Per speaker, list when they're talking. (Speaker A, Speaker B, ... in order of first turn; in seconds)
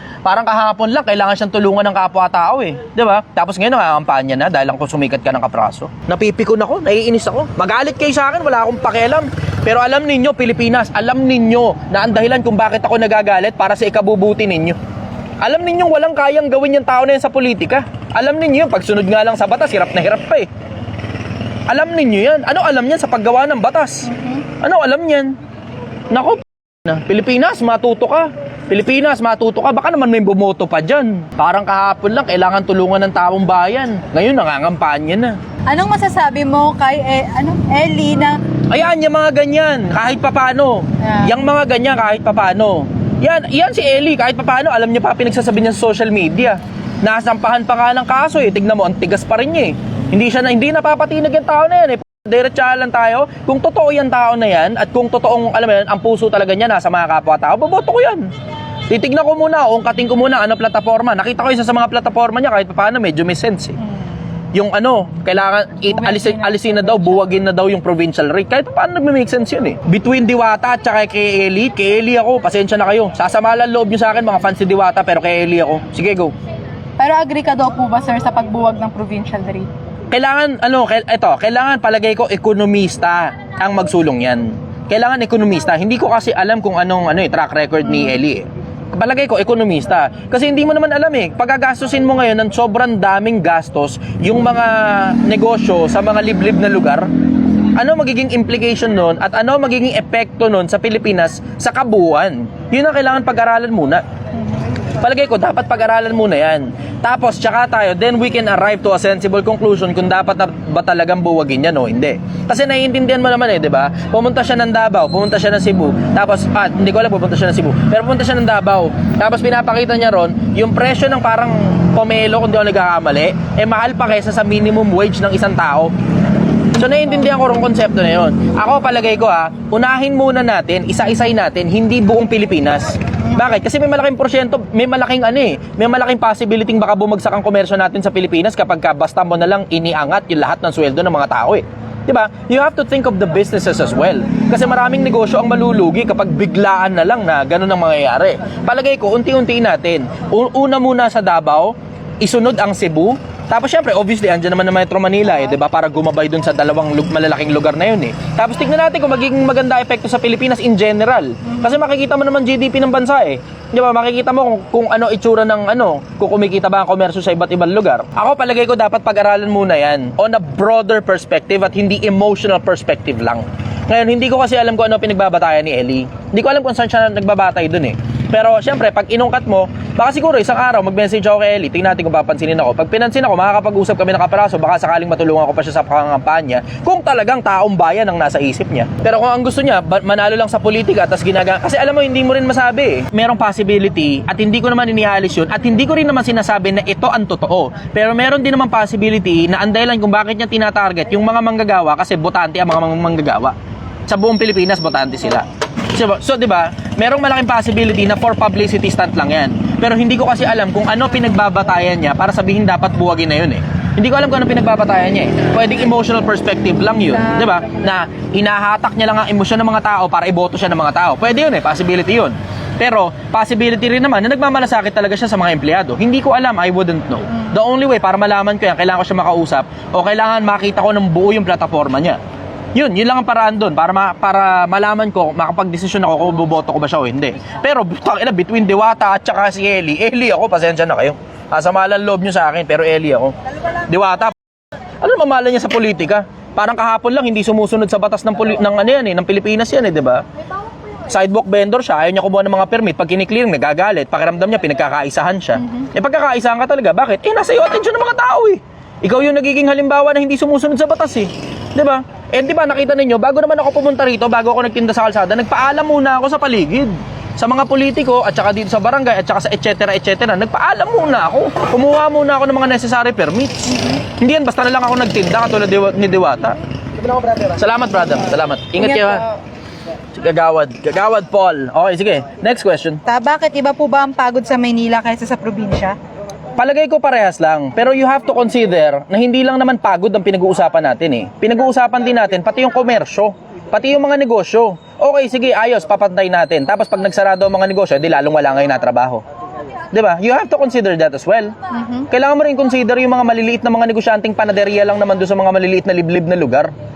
Speaker A: 0.2-14.8, 15.4-20.5, 21.7-25.4, 26.1-35.4, 38.7-58.3, 58.9-63.8, 64.5-76.3, 80.1-97.1, 97.8-104.0, 105.0-125.9, 126.7-203.6, 204.1-232.2, 232.8-244.4, 245.0-250.2, 251.1-276.6, 277.3-279.2, 280.1-283.0, 286.6-299.2, 299.9-301.6, 302.1-306.7
Speaker B: 24.1-24.4, 35.7-38.4, 41.0-41.3, 66.0-67.0, 77.0-79.7, 87.8-88.2, 278.8-279.3, 283.1-286.0, 301.7-302.1